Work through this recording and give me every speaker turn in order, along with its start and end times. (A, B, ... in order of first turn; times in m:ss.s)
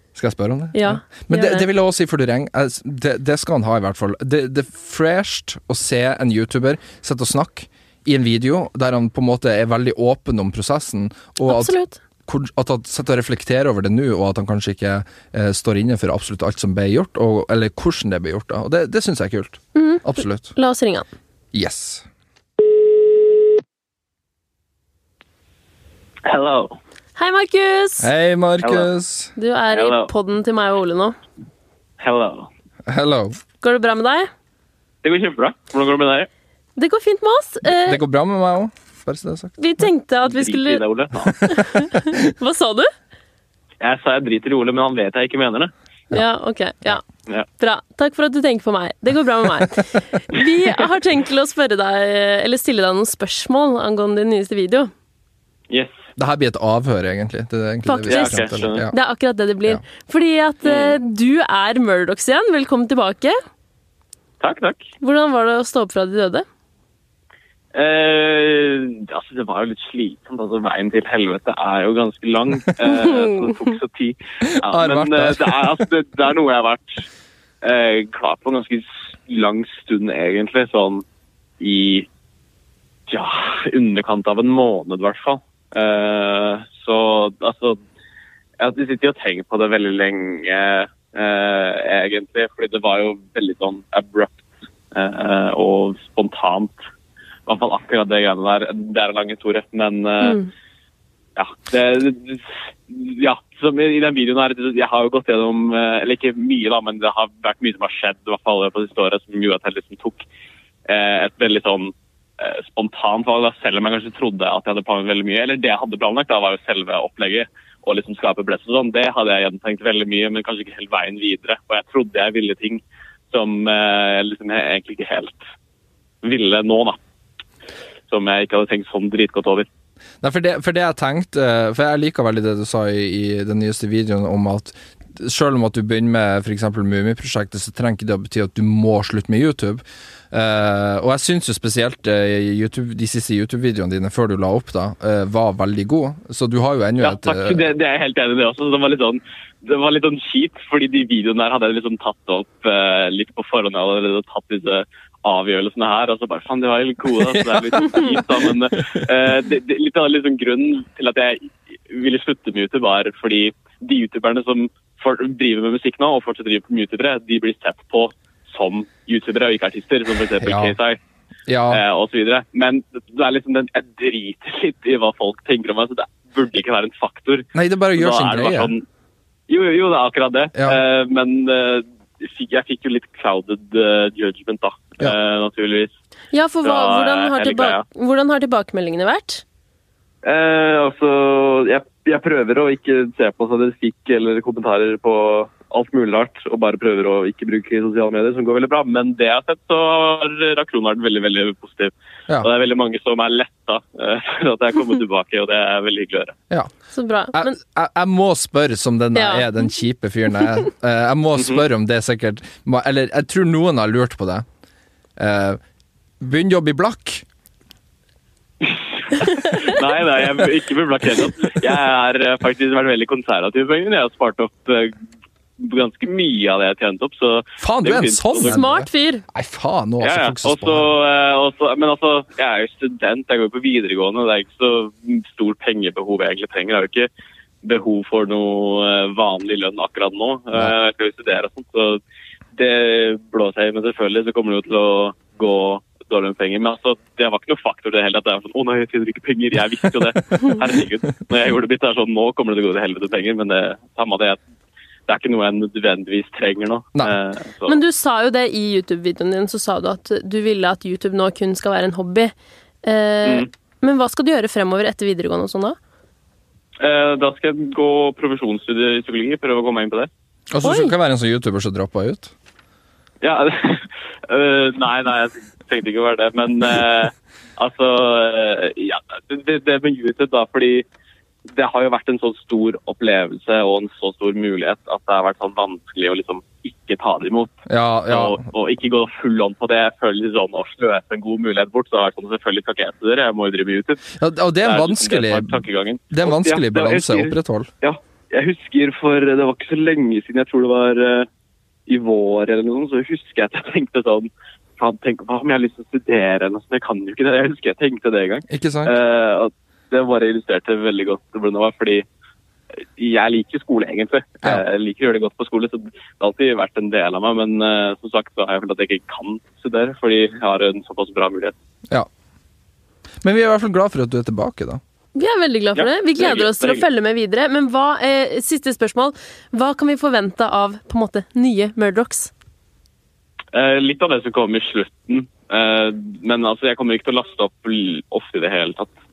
0:00.1-0:20.5 A
0:00.7-0:01.7 B
0:11.5-0:12.0 B
0:19.7-0:21.1 B
0:21.5-0:22.0 A
0:26.2-0:26.8 C
0:27.2-0:28.1 B
0:28.0-0:29.3 A
0:28.6-0:28.9 C
0:29.4-0:31.2 B
0:29.7-0:30.1 C
0:32.0-0:32.5 C
0:32.9-0:33.4 A
0:33.6-0:34.3 B
0:35.0-0:36.3 C
0:36.8-0:38.0 B
0:37.8-0:39.6 A
0:39.6-0:40.8 B
0:40.2-0:41.5 C
0:41.4-0:42.9 B
0:43.8-0:45.7 C
0:46.1-0:47.0 B
0:47.6-0:54.9 B
0:55.7-0:56.0 C
0:56.2-0:58.9 A
0:57.8-1:03.4 B
0:58.1-0:58.8 C
1:00.6-1:01.0 C
1:04.4-1:04.9 C
1:05.0-1:06.4 B
1:07.7-1:17.0 C
1:14.4-1:15.8 A
1:17.6-1:21.0 C
1:21.6-1:22.1 C
1:23.1-1:27.8 C
1:28.6-1:36.8 C
1:37.5-1:40.4 C
1:40.2-1:40.5 B
1:41.4-1:50.2 C
1:50.9-2:05.4 C
2:06.2-2:07.0 C
2:08.1-2:09.7 C
2:10.2-2:27.6 A
2:27.0-2:51.0 C
2:50.4-2:50.8 A
2:51.5-2:51.8 A
2:51.7-2:58.8 C
2:57.5-2:58.7 A
2:59.5-3:05.9 C
3:00.5-3:00.8 A
3:06.3-3:09.4 B
3:06.6-3:07.8 C
3:10.2-3:26.4 C
3:26.9-3:27.6 B
3:27.3-3:34.4 A
3:29.1-3:29.5 B
3:31.4-3:31.6 C
3:35.2-3:35.6 A
3:36.2-3:37.2 A
3:38.6-3:44.9 C
3:45.6-3:48.6 C
3:47.6-3:50.9 A
3:48.4-3:49.2 B
3:50.0-3:57.1 C
3:57.6-4:02.0 C
4:02.6-4:14.4 C
4:15.1-4:17.8 C
4:17.6-4:22.3 B
4:22.8-4:25.8 B
4:26.8-4:30.1 C
4:30.5-4:32.3 A
4:30.6-4:30.9 B
4:33.2-4:40.8 C
4:41.5-4:47.5 C
4:47.7-4:48.4 A
4:48.1-4:54.1 C
4:54.2-4:55.6 A
4:54.6-5:01.3 C
4:56.1-4:57.7 A
5:01.9-5:12.0 C
5:08.5-5:08.9 A
5:13.0-5:21.5 C
5:23.2-5:24.8 A
5:25.1-5:32.3 B
5:25.8-5:26.8 C
5:33.5-5:38.9 C